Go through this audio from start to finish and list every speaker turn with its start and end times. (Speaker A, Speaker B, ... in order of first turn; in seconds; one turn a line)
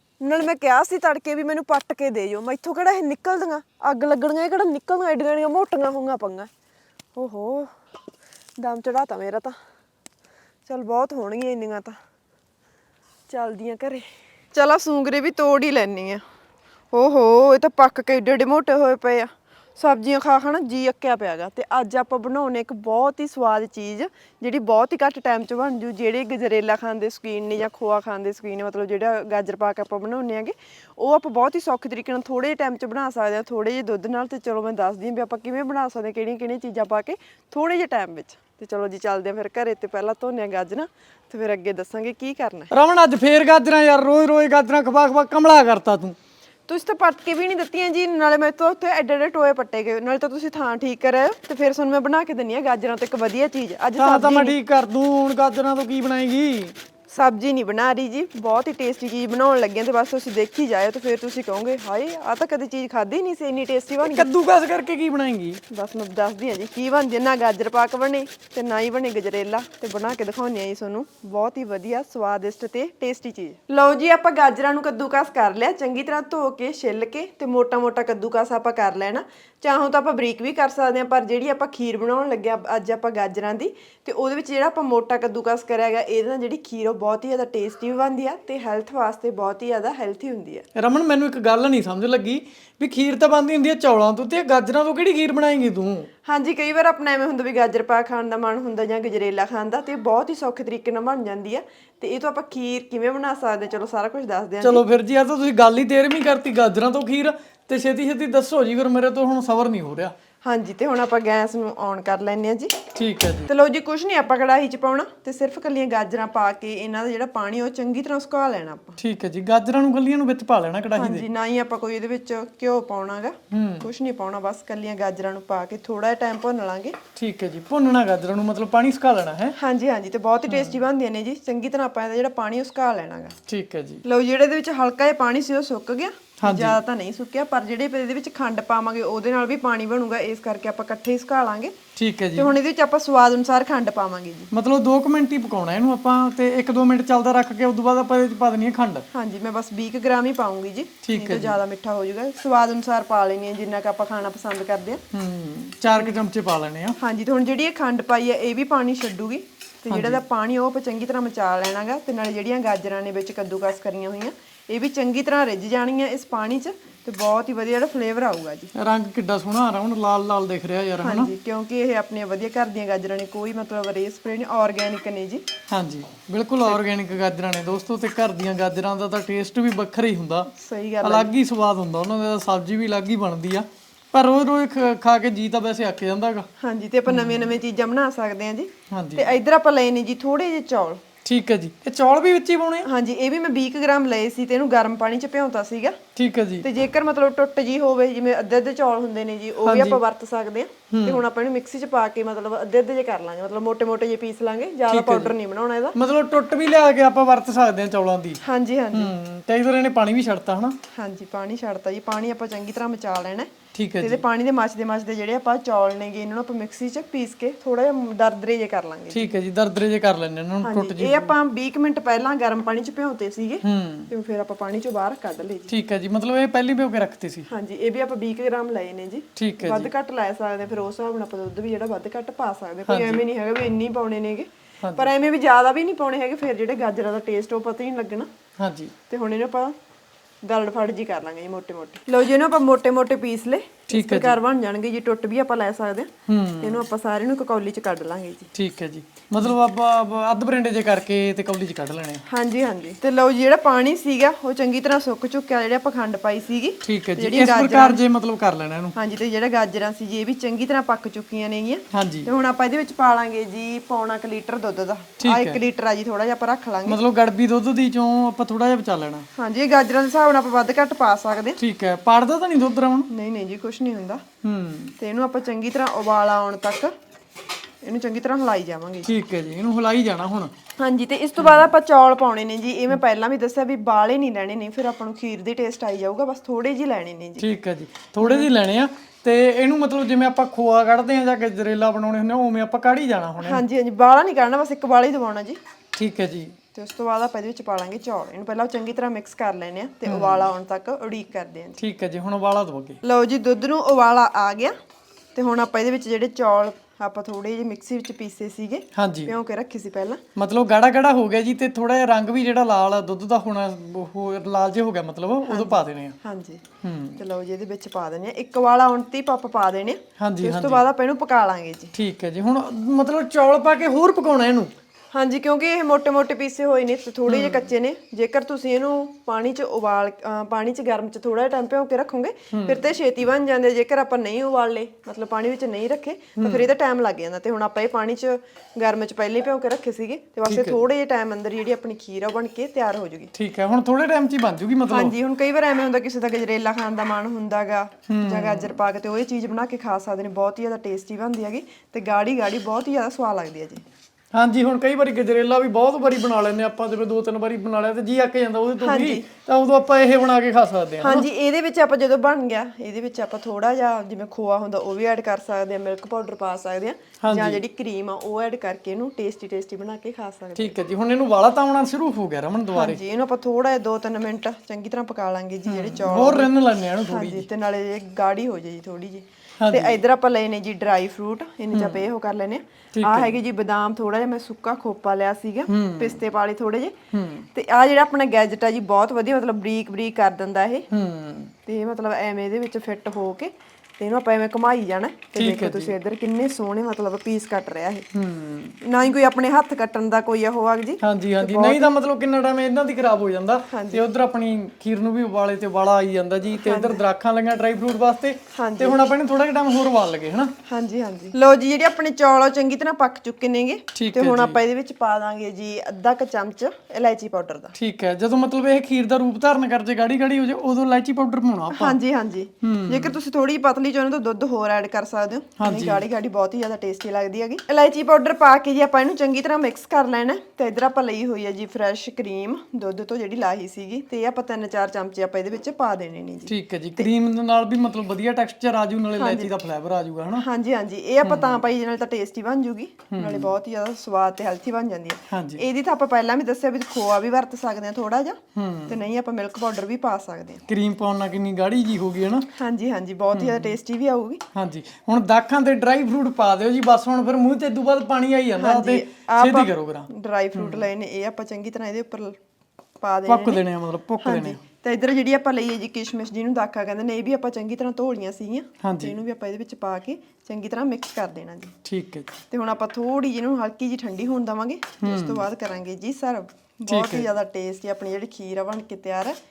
Speaker A: 0.2-6.5
Speaker A: 7.2-7.7
Speaker A: 8.6-9.6
Speaker A: 10.7-12.0
Speaker A: 13.3-16.2
Speaker A: 16.9-42.7
Speaker B: 42.7-46.2
Speaker A: 46.7-54.5
Speaker B: 54.0-56.8
Speaker A: 57.1-64.2
Speaker B: 64.0-65.6
Speaker A: 65.7-90.6
Speaker B: 90.8-96.1
Speaker A: 96.2-104.8
Speaker B: 104.6-110.1
Speaker A: 110.4-112.7
Speaker B: 113.0-113.5
Speaker A: 113.5-119.0
Speaker B: 119.0-121.3
Speaker A: 121.0-127.0
Speaker B: 123.5-123.9
Speaker B: 127.2-129.5
Speaker A: 129.5-133.3
Speaker B: 130.5-130.7
Speaker B: 133.5-134.0
Speaker A: 134.0-141.8
Speaker B: 136.4-136.8
Speaker B: 141.9-142.5
Speaker A: 142.3-144.5
Speaker B: 144.5-149.0
Speaker A: 149.1-155.0
Speaker B: 151.0-151.6
Speaker B: 155.1-157.0
Speaker A: 157.0-168.7
Speaker B: 159.9-160.2
Speaker B: 168.7-171.3
Speaker A: 171.0-175.4
Speaker B: 175.7-180.5
Speaker A: 180.6-181.3
Speaker B: 181.0-186.5
Speaker A: 186.6-191.0
Speaker B: 187.1-187.5
Speaker B: 188.9-189.3
Speaker B: 191.2-192.9
Speaker A: 192.8-196.0
Speaker B: 196.2-196.7
Speaker A: 196.6-205.9
Speaker B: 199.6-200.0
Speaker B: 200.9-201.2
Speaker B: 204.9-205.3
Speaker B: 205.9-208.4
Speaker A: 208.4-209.1
Speaker B: 208.9-210.8
Speaker A: 210.9-219.3
Speaker B: 213.7-214.2
Speaker B: 219.1-221.3
Speaker A: 220.6-225.7
Speaker B: 223.6-224.1
Speaker B: 225.7-227.5
Speaker A: 227.5-238.3
Speaker B: 229.3-229.9
Speaker B: 232.9-233.2
Speaker B: 234.8-235.1
Speaker B: 238.6-238.9
Speaker A: 239.1-239.7
Speaker A: 240.4-246.1
Speaker B: 243.9-244.4
Speaker B: 246.3-246.8
Speaker A: 246.6-248.5
Speaker B: 248.5-252.2
Speaker A: 252.2-258.0
Speaker B: 256.8-258.9
Speaker A: 258.9-267.0
Speaker B: 261.9-262.3
Speaker B: 265.2-265.6
Speaker B: 266.9-269.2
Speaker A: 269.4-271.6
Speaker B: 271.6-273.1
Speaker A: 273.1-274.2
Speaker B: 274.4-274.9
Speaker A: 275.0-276.9
Speaker A: 277.8-279.1
Speaker B: 279.0-280.5
Speaker A: 280.8-287.5
Speaker B: 281.4-281.7
Speaker B: 287.4-293.6
Speaker A: 288.2-288.5
Speaker A: 293.4-295.6
Speaker B: 295.9-296.5
Speaker A: 296.8-301.8
Speaker B: 300.1-300.5
Speaker B: 301.8-303.0
Speaker A: 303.0-304.7
Speaker A: 305.3-310.2
Speaker B: 308.9-309.3
Speaker B: 310.4-316.1
Speaker A: 315.4-316.6
Speaker B: 316.8-317.2
Speaker A: 317.2-321.9
Speaker B: 320.2-320.8
Speaker B: 321.9-324.7
Speaker A: 325.1-343.3
Speaker B: 327.3-327.7
Speaker B: 332.5-332.8
Speaker B: 336.4-336.7
Speaker B: 340.4-340.8
Speaker B: 343.3-345.1
Speaker A: 344.9-353.8
Speaker B: 348.1-348.7
Speaker B: 354.3-361.3
Speaker A: 358.8-359.2
Speaker A: 361.0-370.8
Speaker B: 367.2-367.6
Speaker B: 370.6-373.0
Speaker A: 372.7-376.5
Speaker B: 375.7-377.4
Speaker A: 377.1-386.9
Speaker B: 379.6-380.0
Speaker B: 381.7-382.0
Speaker B: 382.9-383.4
Speaker B: 385.7-386.2
Speaker B: 387.1-387.4
Speaker A: 387.5-390.9
Speaker B: 390.9-391.5
Speaker A: 391.6-398.1
Speaker B: 395.3-395.9
Speaker B: 398.1-398.8
Speaker A: 398.8-401.9
Speaker B: 401.0-410.5
Speaker A: 403.7-404.0
Speaker A: 406.6-407.0
Speaker A: 408.5-409.0
Speaker A: 410.6-417.7
Speaker B: 413.9-414.6
Speaker B: 417.8-421.9
Speaker A: 421.7-437.1
Speaker B: 422.6-423.1
Speaker B: 425.6-426.0
Speaker B: 436.5-440.4
Speaker A: 439.2-439.5
Speaker A: 440.4-450.6
Speaker B: 441.2-441.6
Speaker B: 443.1-443.5
Speaker B: 445.3-445.6
Speaker B: 448.6-449.0
Speaker B: 450.7-452.5
Speaker A: 452.5-454.4
Speaker B: 453.3-453.8
Speaker B: 454.5-460.9
Speaker A: 458.6-462.4
Speaker A: 463.0-463.6
Speaker B: 463.3-464.6
Speaker A: 464.2-471.8
Speaker B: 468.8-469.1
Speaker B: 471.8-472.4
Speaker A: 472.5-479.4
Speaker B: 475.0-475.4
Speaker B: 476.9-477.3